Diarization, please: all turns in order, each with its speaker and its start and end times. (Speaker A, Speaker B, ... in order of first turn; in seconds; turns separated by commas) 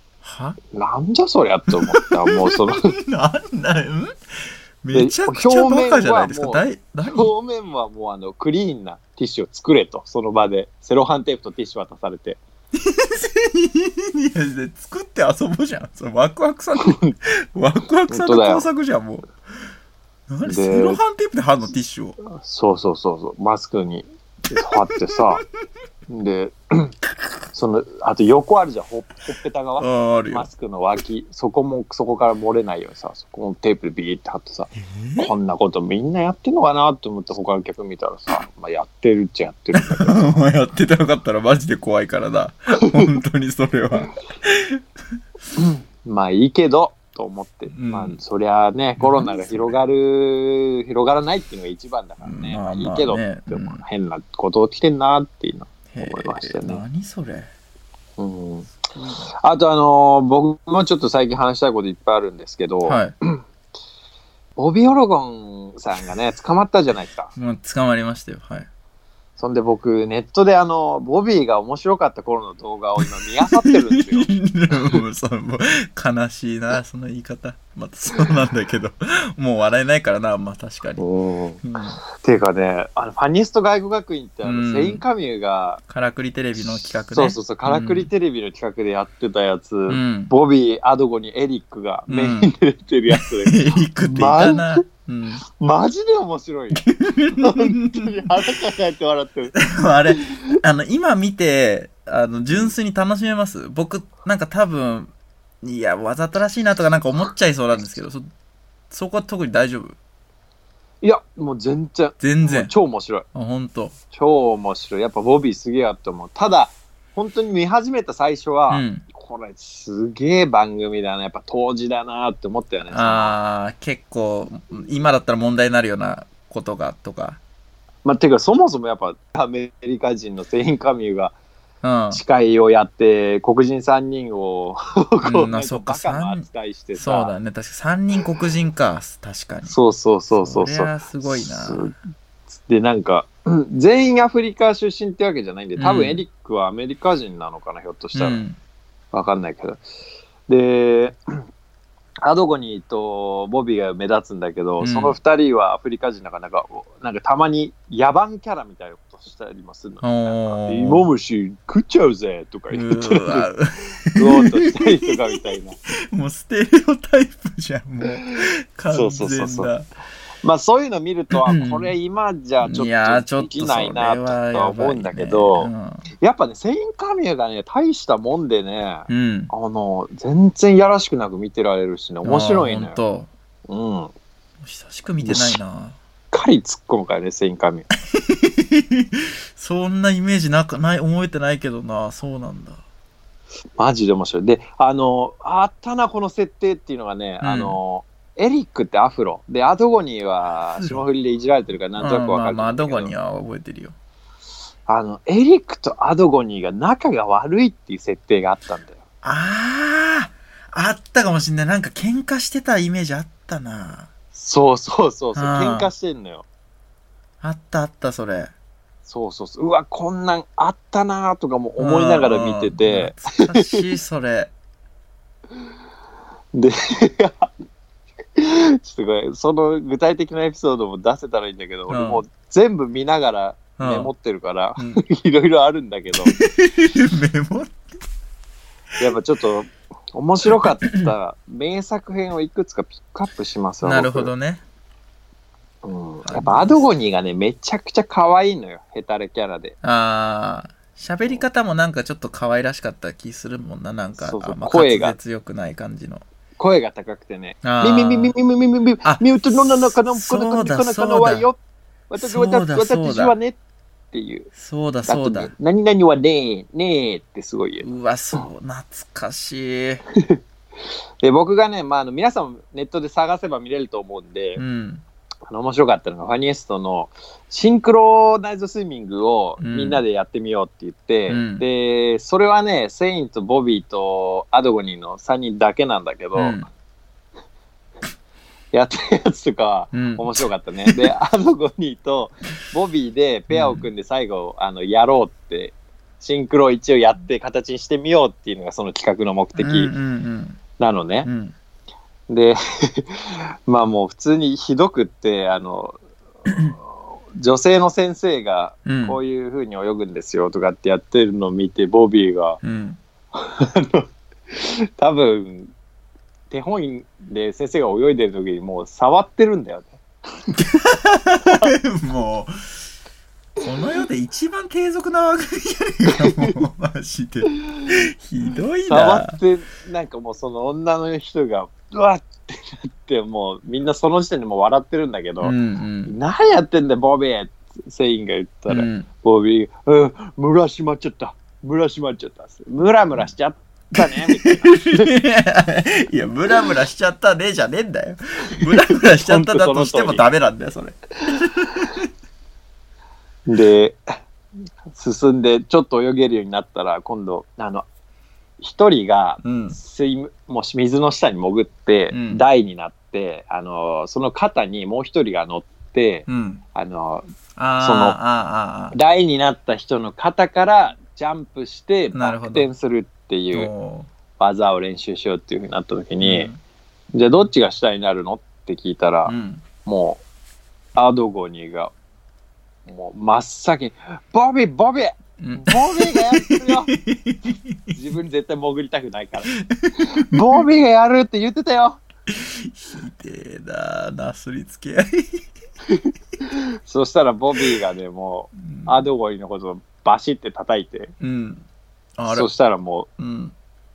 Speaker A: 0.2-0.6, Speaker B: 0.7-2.9, Speaker A: 1.7-4.1, Speaker A: 4.8-7.3, Speaker B: 4.9-12.4, Speaker A: 12.8-19.3, Speaker B: 16.8-17.1, Speaker B: 18.1-18.7, Speaker A: 20.3-22.2, Speaker B: 20.4-21.0, Speaker B: 22.2-25.5, Speaker B: 26.1-26.9, Speaker B: 27.5-40.4, Speaker A: 29.8-30.5, Speaker A: 34.9-35.3, Speaker A: 39.8-44.8, Speaker B: 45.6-56.8, Speaker A: 47.7-48.2, Speaker A: 49.0-49.8, Speaker A: 52.2-53.8, Speaker A: 55.9-57.5, Speaker B: 58.2-58.7, Speaker B: 59.4-63.4, Speaker A: 62.9-63.1, Speaker B: 64.6-67.3, Speaker A: 67.3-68.7, Speaker B: 69.4-74.3, Speaker A: 73.5-81.0, Speaker B: 81.0-81.6, Speaker A: 81.6-82.0, Speaker B: 82.2-85.8, Speaker A: 84.4-85.0, Speaker A: 85.9-88.1, Speaker B: 86.6-94.8, Speaker A: 89.9-90.3, Speaker A: 92.1-92.5, Speaker A: 93.1-95.4, Speaker B: 95.6-99.6, Speaker A: 96.8-98.3, Speaker A: 99.5-105.1, Speaker B: 100.2-100.5, Speaker A: 105.6-108.3, Speaker A: 108.9-110.0, Speaker B: 111.0-113.3, Speaker A: 112.2-112.7, Speaker A: 113.3-114.0, Speaker B: 114.1-123.4, Speaker A: 118.7-119.0, Speaker A: 122.9-127.4, Speaker B: 128.1-131.3, Speaker A: 131.8-132.2, Speaker B: 132.1-137.3, Speaker A: 135.2-139.8, Speaker B: 139.7-141.9, Speaker A: 140.3-141.9, Speaker B: 142.6-148.4, Speaker A: 145.8-146.2, Speaker A: 148.2-148.6, Speaker B: 149.1-149.8, Speaker B: 150.5-151.2, Speaker B: 152.2-163.5, Speaker A: 154.8-155.2, Speaker A: 160.0-161.1, Speaker A: 162.7-165.3, Speaker B: 164.2-165.8, Speaker A: 165.9-169.9, Speaker B: 168.2-169.7, Speaker B: 170.4-175.7, Speaker A: 171.4-171.9, Speaker A: 172.6-176.1, Speaker B: 176.2-183.0, Speaker A: 179.1-179.5, Speaker A: 182.2-183.3, Speaker B: 183.7-184.1, Speaker A: 184.6-186.0, Speaker B: 185.2-185.6, Speaker B: 186.3-187.9, Speaker A: 188.1-192.8, Speaker B: 193.8-203.1, Speaker A: 197.4-197.8, Speaker A: 200.8-201.1, Speaker A: 202.0-203.9, Speaker B: 204.9-209.0, Speaker A: 209.2-214.1, Speaker B: 214.3-216.4, Speaker A: 215.3-215.9, Speaker A: 217.4-218.5, Speaker B: 219.1-223.8, Speaker A: 221.8-224.5, Speaker B: 226.5-227.5, Speaker B: 228.4-236.3, Speaker A: 231.9-232.2, Speaker A: 233.8-234.1, Speaker A: 236.2-237.8, Speaker B: 239.0-244.3, Speaker A: 240.5-241.1, Speaker A: 243.8-244.6, Speaker B: 245.8-249.8, Speaker A: 246.2-246.9, Speaker A: 249.8-256.2, Speaker B: 254.2-255.2, Speaker B: 256.6-261.6, Speaker A: 257.6-258.3, Speaker A: 259.0-261.5, Speaker B: 262.1-263.6, Speaker A: 262.2-263.4, Speaker B: 264.1-264.5, Speaker A: 264.6-265.5, Speaker B: 265.1-267.9, Speaker A: 267.8-270.0, Speaker B: 271.2-274.6, Speaker A: 274.6-275.0, Speaker B: 275.5-286.6, Speaker A: 279.6-280.0, Speaker A: 281.3-281.6, Speaker A: 286.4-286.7, Speaker B: 288.7-299.9, Speaker A: 289.9-291.1, Speaker A: 293.5-293.9, Speaker A: 299.6-300.6, Speaker B: 300.8-301.3, Speaker A: 301.2-301.5, Speaker B: 302.3-306.0, Speaker B: 306.5-312.6, Speaker A: 308.9-309.2, Speaker A: 312.6-313.0, Speaker B: 313.4-315.7, Speaker B: 316.5-320.5, Speaker A: 320.5-322.5, Speaker B: 321.4-321.7, Speaker A: 323.6-329.4, Speaker B: 328.9-335.5, Speaker A: 335.4-336.1, Speaker B: 336.1-345.1, Speaker A: 338.7-339.1, Speaker A: 344.1-352.1, Speaker B: 348.6-350.2, Speaker B: 351.3-351.9, Speaker B: 353.5-354.0, Speaker B: 354.9-357.9, Speaker B: 358.6-367.3, Speaker A: 359.4-359.8, Speaker A: 362.1-362.4, Speaker A: 366.3-366.6, Speaker A: 367.6-368.9, Speaker B: 367.8-368.2, Speaker B: 368.9-373.7, Speaker A: 372.1-372.7, Speaker A: 373.5-374.1, Speaker B: 374.4-376.5, Speaker A: 376.2-376.6, Speaker B: 377.1-380.2, Speaker A: 379.3-379.6, Speaker B: 381.0-381.9, Speaker B: 382.9-386.9, Speaker A: 385.4-388.0, Speaker B: 387.9-392.0, Speaker A: 389.5-390.6, Speaker A: 392.3-395.5, Speaker B: 395.9-401.1, Speaker A: 398.6-399.0, Speaker A: 401.2-401.6, Speaker A: 402.2-402.5, Speaker B: 402.3-403.1, Speaker A: 403.2-403.5